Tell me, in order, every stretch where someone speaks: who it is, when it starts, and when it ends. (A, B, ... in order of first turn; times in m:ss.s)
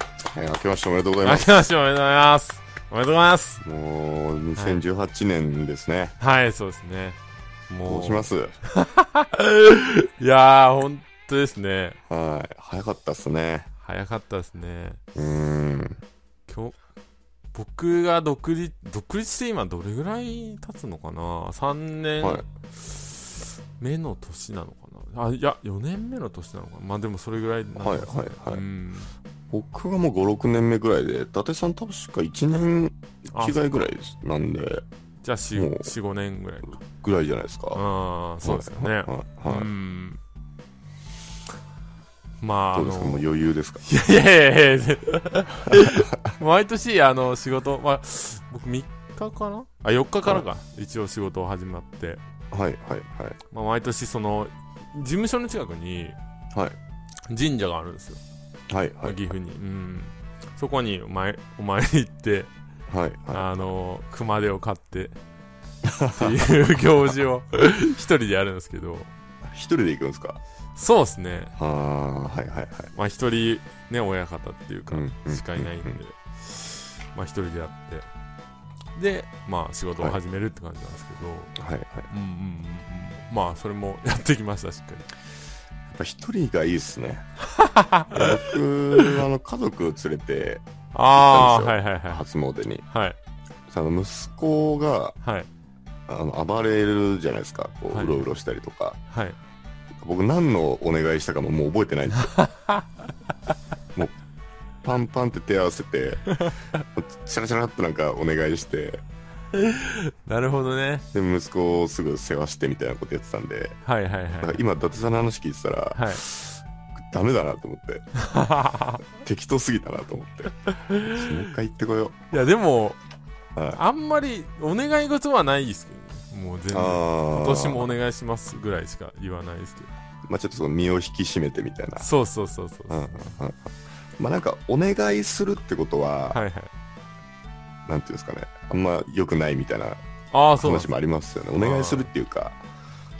0:00.3-0:01.5 A
0:01.2-0:03.6 B
0:03.6-0:06.1 A
0:04.6-0:04.8 B
0:06.2-0:07.2 B
0:07.7-0:12.0 B
0:07.9-0:08.5 A
0:12.1-0:13.7 A
0:13.8-0:15.0 B
0:15.1-0:16.0 A
0:16.5-0:16.7 B
0:17.5-0:29.1 B
0:27.8-0:28.6 A
0:29.5-0:34.8 A
0:33.3-0:33.9 B
0:35.2-0:36.8 B
0:35.5-0:35.9 A
0:36.8-0:37.8 A
0:37.7-0:40.2 B
0:38.4-0:39.7 A
0:42.4-0:43.2 B
0:42.7-0:43.8 A
0:43.8-0:52.2 B
0:45.7-0:46.1 A
0:52.5-0:53.4 A
0:53.5-0:56.2 B
0:57.3-0:58.2 B
0:58.7-0:59.2 A
0:59.0-1:02.5 B
1:02.9-1:03.4 A
1:03.3-1:05.2 B
1:05.8-1:06.4 A
1:06.1-1:09.1 B
1:09.4-1:10.4 A
1:10.8-1:11.5 B
1:11.6-1:12.9 A
1:12.9-1:18.1 B
1:14.9-1:16.0 A
1:18.9-1:21.5 B
1:21.6-1:22.1 A
1:22.1-1:25.1 B
1:25.9-1:27.3 A
1:27.4-1:29.2 B
1:28.1-1:32.8 A
1:30.9-1:32.2 B
1:32.9-1:33.2 B
1:33.7-1:35.2 A
1:35.2-1:35.5 B
1:36.1-1:39.0 A
1:37.9-1:38.3 B
1:39.1-1:39.4 B
1:40.0-1:42.3 A
1:42.2-1:42.9 B
1:44.8-1:46.3 A
1:46.3-1:46.6 B
1:46.9-1:49.0 A
1:49.5-1:51.0 B
1:51.1-1:53.8 A
1:53.8-1:54.6 B
1:54.4-1:58.0 A
1:55.9-1:56.2 B
1:58.2-1:59.0 B
1:59.1-2:02.2 A
2:00.6-2:01.5 B
2:02.3-2:03.0 B
2:03.7-2:09.9 B
2:06.7-2:07.9 A
2:10.2-2:12.1 A
2:12.0-2:13.1 B
2:12.9-2:16.4 A
2:16.3-2:16.7 B
2:17.8-2:20.0 A
2:20.3-2:20.9 B
2:20.5-2:22.6 A
2:21.6-2:22.1 B